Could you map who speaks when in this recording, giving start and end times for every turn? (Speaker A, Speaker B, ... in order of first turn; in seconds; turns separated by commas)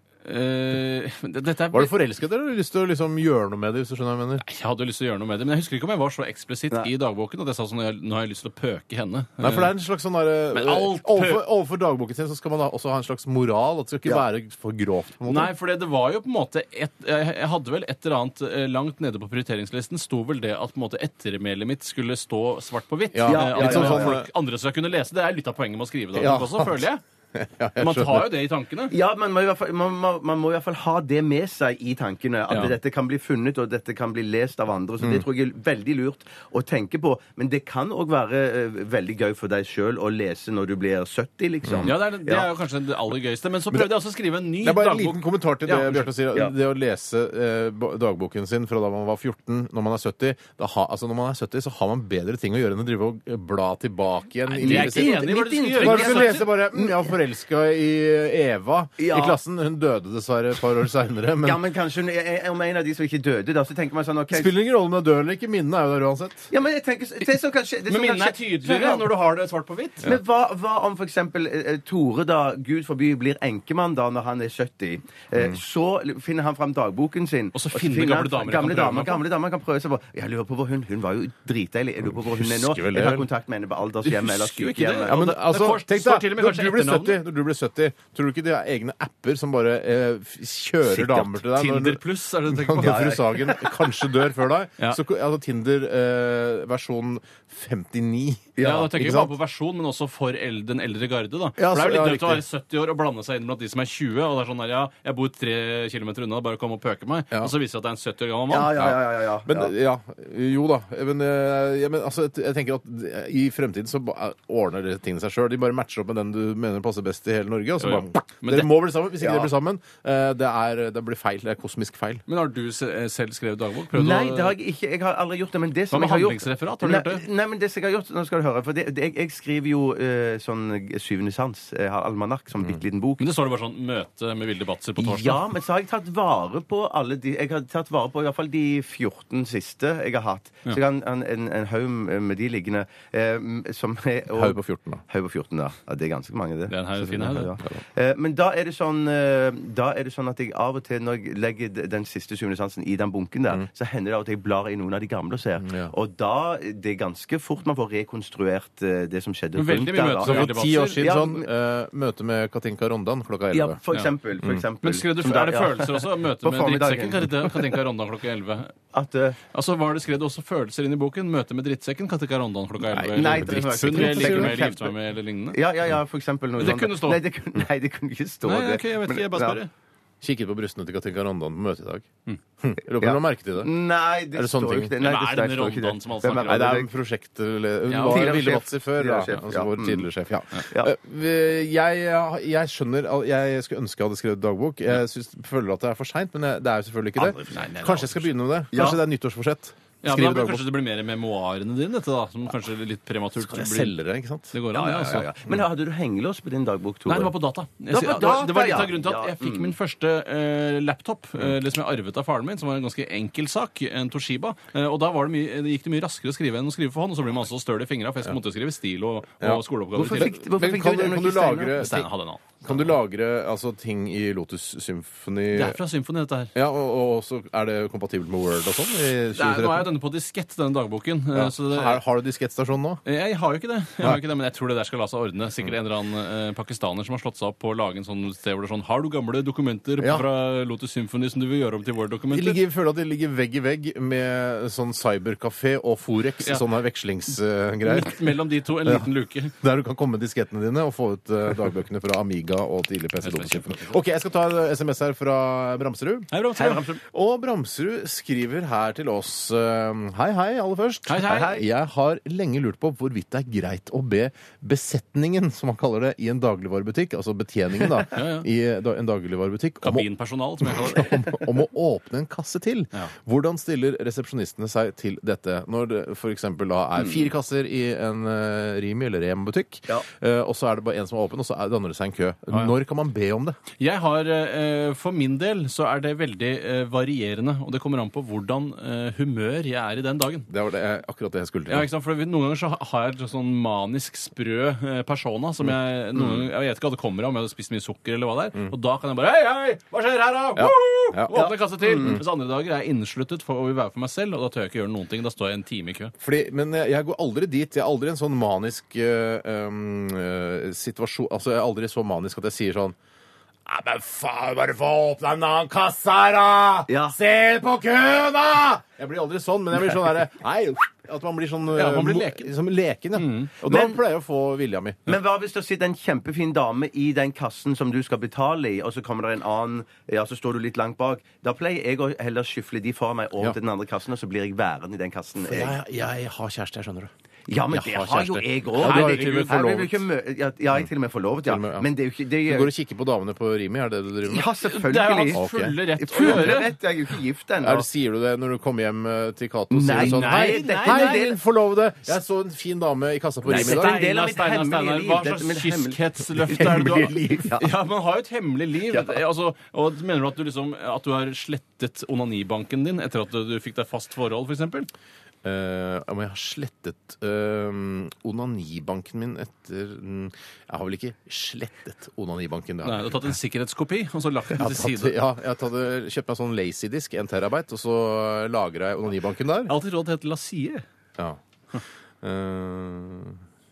Speaker A: 0.2-1.9, Speaker B: 1.7-4.4, Speaker A: 4.4-9.7, Speaker B: 9.4-15.5, Speaker A: 10.5-11.4, Speaker A: 15.3-27.0, Speaker B: 23.1-24.3, Speaker C: 23.3-24.2, Speaker B: 26.1-28.3, Speaker A: 27.8-28.9, Speaker C: 28.9-42.5, Speaker A: 32.5-32.7, Speaker B: 41.6-41.9, Speaker A: 41.8-46.1, Speaker B: 44.6-61.6, Speaker A: 54.5-56.5, Speaker C: 54.6-57.1, Speaker C: 59.0-59.4, Speaker C: 61.4-64.5, Speaker B: 64.3-66.5, Speaker C: 66.5-69.1, Speaker A: 67.9-70.1, Speaker C: 70.0-85.3, Speaker A: 77.5-79.2, Speaker B: 82.0-83.3, Speaker A: 84.0-87.2, Speaker B: 85.1-99.3, Speaker A: 91.0-93.2, Speaker C: 92.8-93.8, Speaker C: 98.6-98.9, Speaker A: 98.6-108.9, Speaker B: 101.6-102.4, Speaker C: 108.5-109.7, Speaker B: 108.8-122.2, Speaker A: 117.8-118.7, Speaker C: 119.2-119.5, Speaker A: 122.3-124.5, Speaker C: 123.9-133.2, Speaker A: 125.9-127.2, Speaker A: 133.2-135.4, Speaker C: 135.0-161.5, Speaker B: 144.3-145.0, Speaker A: 146.7-147.5, Speaker B: 155.6-155.9, Speaker A: 159.6-161.1, Speaker B: 160.2-163.8, Speaker C: 163.5-167.6, Speaker A: 164.8-168.7, Speaker C: 168.9-169.4, Speaker A: 169.5-175.6, Speaker B: 172.9-174.6, Speaker C: 173.1-174.9, Speaker C: 175.5-179.6, Speaker A: 176.6-177.2, Speaker A: 178.4-179.7, Speaker B: 180.2-182.1, Speaker B: 182.6-183.7, Speaker C: 183.0-186.9, Speaker B: 184.3-184.9, Speaker A: 185.0-186.8, Speaker B: 186.4-200.7, Speaker A: 187.9-188.5, Speaker C: 188.0-190.1, Speaker C: 190.6-190.9, Speaker C: 197.2-197.9, Speaker A: 197.5-198.2, Speaker C: 198.7-199.0, Speaker A: 200.0-203.9, Speaker B: 203.4-204.5, Speaker A: 204.5-205.3, Speaker C: 204.7-207.3, Speaker A: 207.1-220.3, Speaker C: 207.9-209.7, Speaker B: 219.4-222.1, Speaker C: 219.9-221.8, Speaker A: 221.8-222.7, Speaker B: 222.6-225.8, Speaker A: 225.5-226.5, Speaker B: 226.6-229.9, Speaker A: 229.3-232.0, Speaker B: 231.3-233.0, Speaker A: 233.1-242.6, Speaker B: 240.0-240.3, Speaker B: 242.3-248.2, Speaker A: 247.8-249.6, Speaker B: 249.6-256.3, Speaker A: 253.2-254.0, Speaker A: 256.3-257.0, Speaker C: 256.6-256.8, Speaker B: 257.0-270.1, Speaker A: 261.1-261.6, Speaker C: 261.3-261.6, Speaker A: 268.1-268.5, Speaker A: 269.8-271.4, Speaker B: 270.6-283.6, Speaker A: 283.8-290.5, Speaker B: 290.5-291.9, Speaker A: 291.7-306.1, Speaker B: 300.6-301.3, Speaker C: 301.3-302.2, Speaker B: 306.2-313.0, Speaker B: 313.7-325.1, Speaker C: 316.9-317.2, Speaker A: 321.7-322.5, Speaker A: 323.1-323.5, Speaker C: 323.7-324.0, Speaker C: 325.1-335.8, Speaker B: 335.4-337.1, Speaker C: 337.5-342.7, Speaker B: 337.7-339.9, Speaker A: 338.8-339.8, Speaker B: 341.5-341.9, Speaker B: 342.5-344.5, Speaker C: 344.3-345.4, Speaker A: 344.6-346.7, Speaker B: 345.3-346.6, Speaker C: 346.0-347.9, Speaker B: 347.6-354.0, Speaker C: 349.7-351.4, Speaker A: 350.0-351.3, Speaker C: 353.5-357.7, Speaker A: 353.5-364.9, Speaker B: 356.5-357.4, Speaker C: 358.9-359.2, Speaker B: 365.4-373.2, Speaker A: 372.8-375.2, Speaker B: 374.6-379.7, Speaker A: 379.7-380.8, Speaker B: 382.2-383.4